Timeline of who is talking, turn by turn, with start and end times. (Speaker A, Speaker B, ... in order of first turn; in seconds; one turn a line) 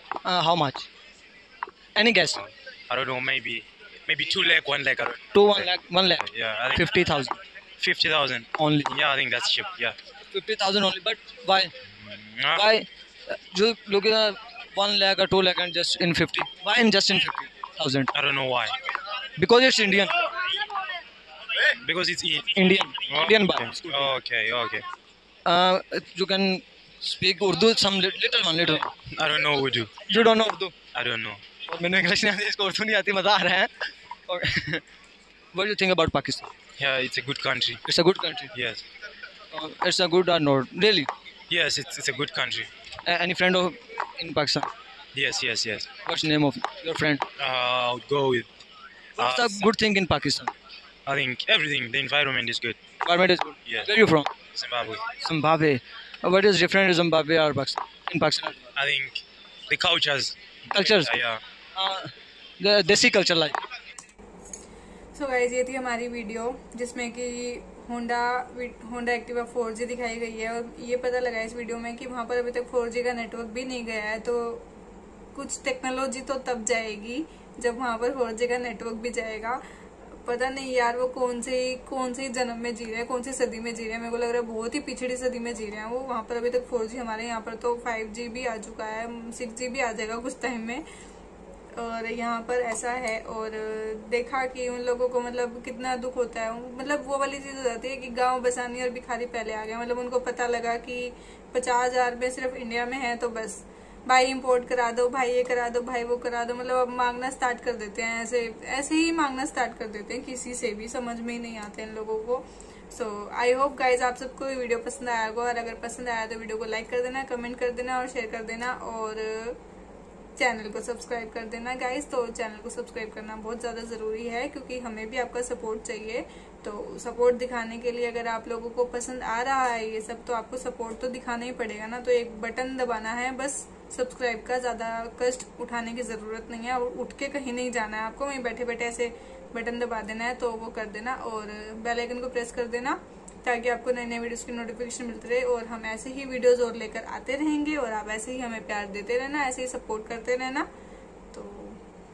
Speaker A: 0.2-0.9
Speaker A: 1.9-2.4
Speaker B: 2.4-6.9
Speaker A: 5.3-7.4
Speaker B: 7.8-9.9
Speaker A: 8.6-8.9
Speaker A: 10.3-11.7
Speaker B: 12.0-12.6
Speaker A: 12.5-18.1
Speaker B: 18.1-18.8
Speaker A: 19.4-20.1
Speaker B: 21.7-24.8
Speaker A: 22.6-23.8
Speaker A: 25.4-28.9
Speaker B: 29.1-29.9
Speaker A: 30.1-30.7
Speaker B: 30.9-31.4
Speaker A: 31.7-34.8
Speaker A: 35.5-36.5
Speaker B: 36.8-37.8
Speaker A: 37.9-38.5
Speaker B: 38.5-38.8
Speaker A: 39.5-41.1
Speaker B: 41.5-42.7
Speaker A: 43.0-44.7
Speaker B: 45.1-45.9
Speaker A: 46.0-47.2
Speaker B: 47.4-48.5
Speaker B: 49.2-49.7
Speaker A: 49.2-50.5
Speaker B: 51.0-52.8
Speaker A: 53.0-54.3
Speaker B: 54.5-55.0
Speaker A: 55.2-58.6
Speaker B: 58.8-61.4
Speaker A: 60.7-61.1
Speaker A: 61.7-63.6
Speaker C: 65.1-74.7
Speaker C: 75.3-79.6
Speaker C: 80.2-90.8
Speaker C: 91.7-119.6
Speaker C: 120.4-150.7
Speaker C: 151.3-151.8